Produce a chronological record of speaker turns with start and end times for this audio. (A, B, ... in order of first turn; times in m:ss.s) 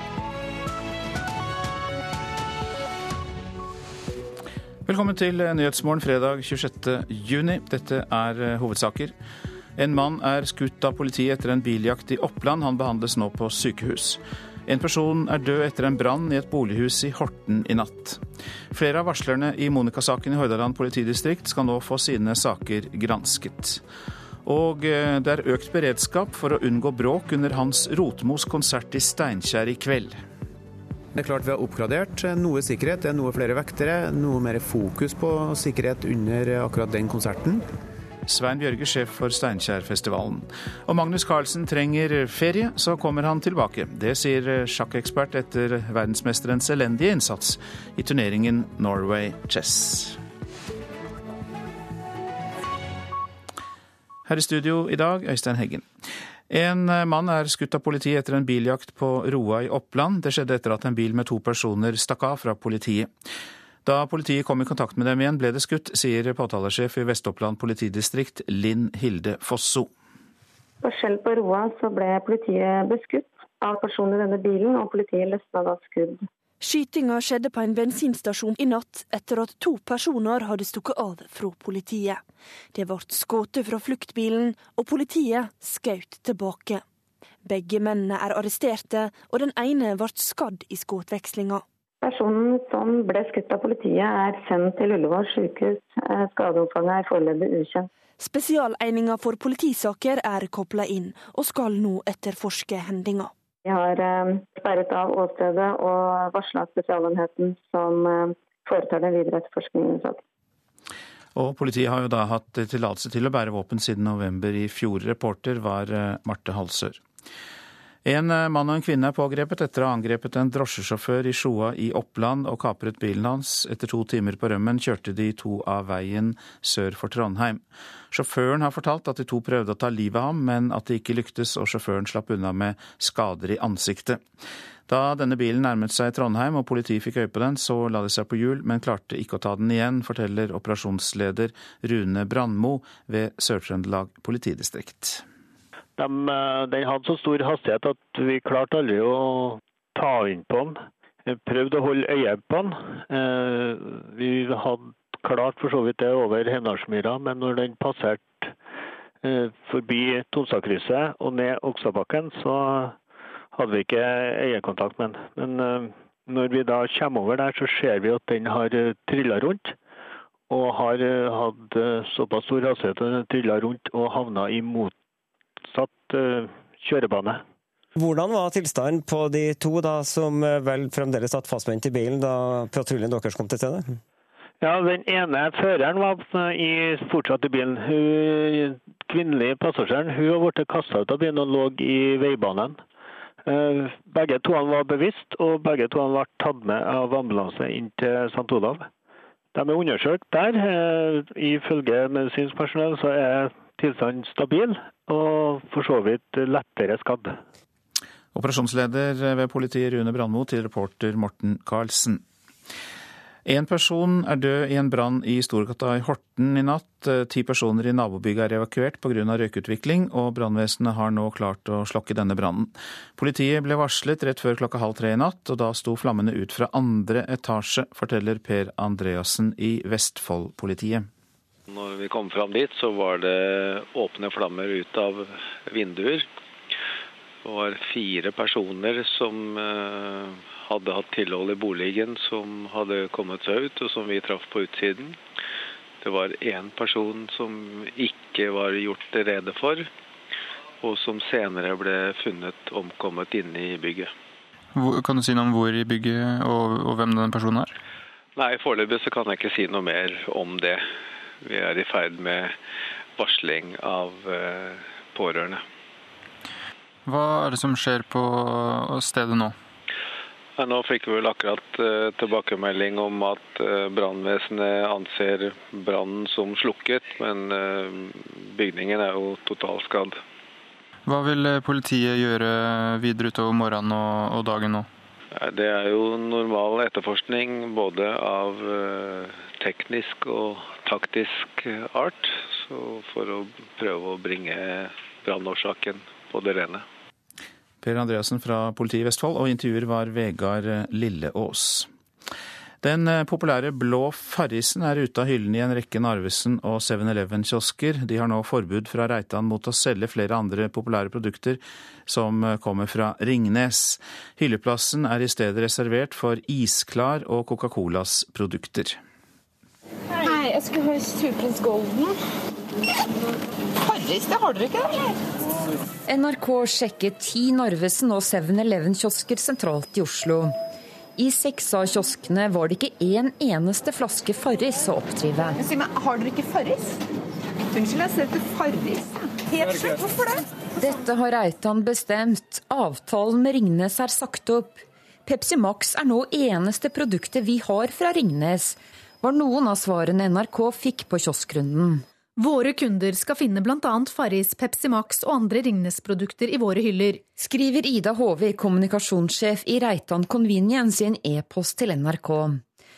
0:04.8-0:09.1 A
0:09.8-0:23.8 A
0:24.4-0:30.2 A
0:31.1-0:37.6 B
0:38.3-0:50.2 A
0:54.2-0:55.9 A
0:56.5-1:03.1 A
1:03.8-1:09.9 A
1:10.8-1:16.3 C
1:16.6-1:22.2 D
1:22.7-1:26.8 D
1:27.4-1:31.6 D
1:32.0-1:37.9 C
1:38.2-1:43.3 D
1:43.6-1:50.2 C
1:51.3-1:57.0 A
1:58.0-2:14.2 A
2:14.9-2:25.2 A
2:26.0-2:30.7 E
2:31.5-2:38.2 E
2:39.2-2:42.9 E
2:43.6-2:49.7 E
2:50.5-2:54.9 E
2:55.7-2:57.4 E
2:58.0-3:04.0 F
3:04.6-3:12.7 E
3:13.5-3:18.8 E
3:19.6-3:27.3 E
3:28.3-3:32.2 A
3:33.4-3:51.1 A
3:51.7-3:56.3 G
3:57.4-4:05.2 G
4:06.0-4:09.9 G
4:10.8-4:14.1 G
4:14.8-4:17.7 H
4:18.4-4:20.8 G
4:21.4-4:22.6 G
4:23.2-4:25.6 G
4:27.0-4:29.6 H
4:30.6-4:40.2 G
4:41.0-4:44.9 H
4:45.3-4:56.8 G
4:57.8-5:01.9 A
5:02.8-5:19.0 A
5:20.1-5:22.2 I
5:23.8-5:25.2 I
5:26.1-5:30.5 J
5:31.2-5:35.6 J
5:35.5-5:37.0 I
5:37.7-5:40.5 I
5:40.8-5:52.0 J
5:52.4-5:57.2 K
5:57.4-6:02.6 J